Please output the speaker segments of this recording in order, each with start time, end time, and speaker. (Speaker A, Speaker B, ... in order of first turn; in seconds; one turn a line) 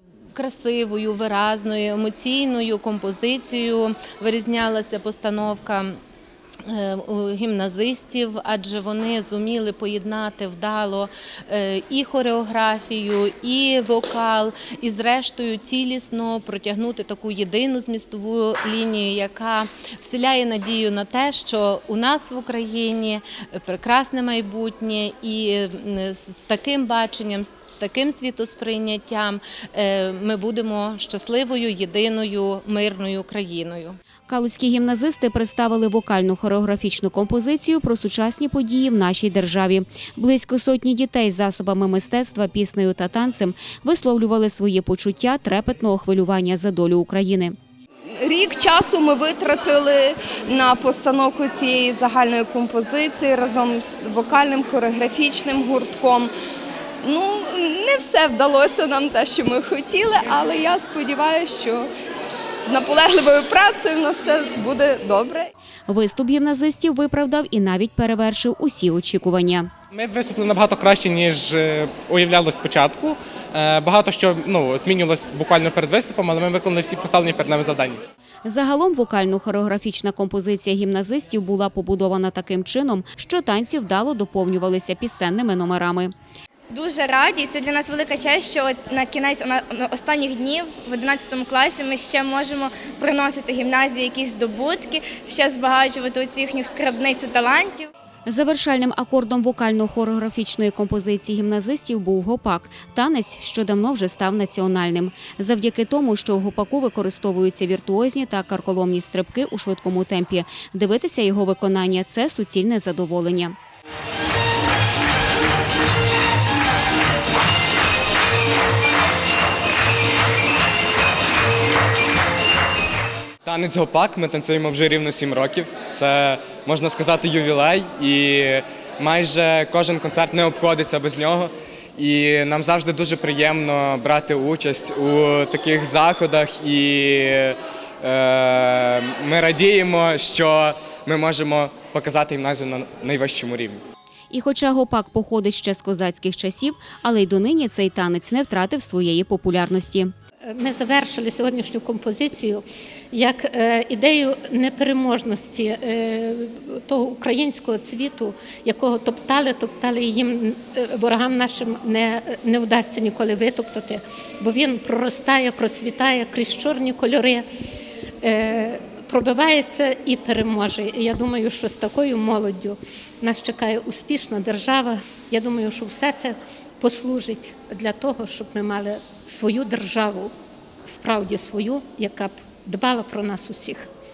Speaker A: 0.3-6.0
Speaker A: 6.7-34.0
Speaker B: 34.3-47.5
Speaker C: 48.2-56.3
Speaker C: 57.0-61.9
Speaker C: 62.6-65.5
Speaker B: 65.9-69.7
Speaker D: 69.9-78.0
Speaker B: 78.4-86.1
Speaker E: 86.7-97.9
Speaker B: 98.3-113.5
Speaker F: 123.5-143.8
Speaker B: 144.3-150.1
Speaker G: 150.5-167.5
Speaker G: 168.2-180.3
Speaker G: 180.8-183.9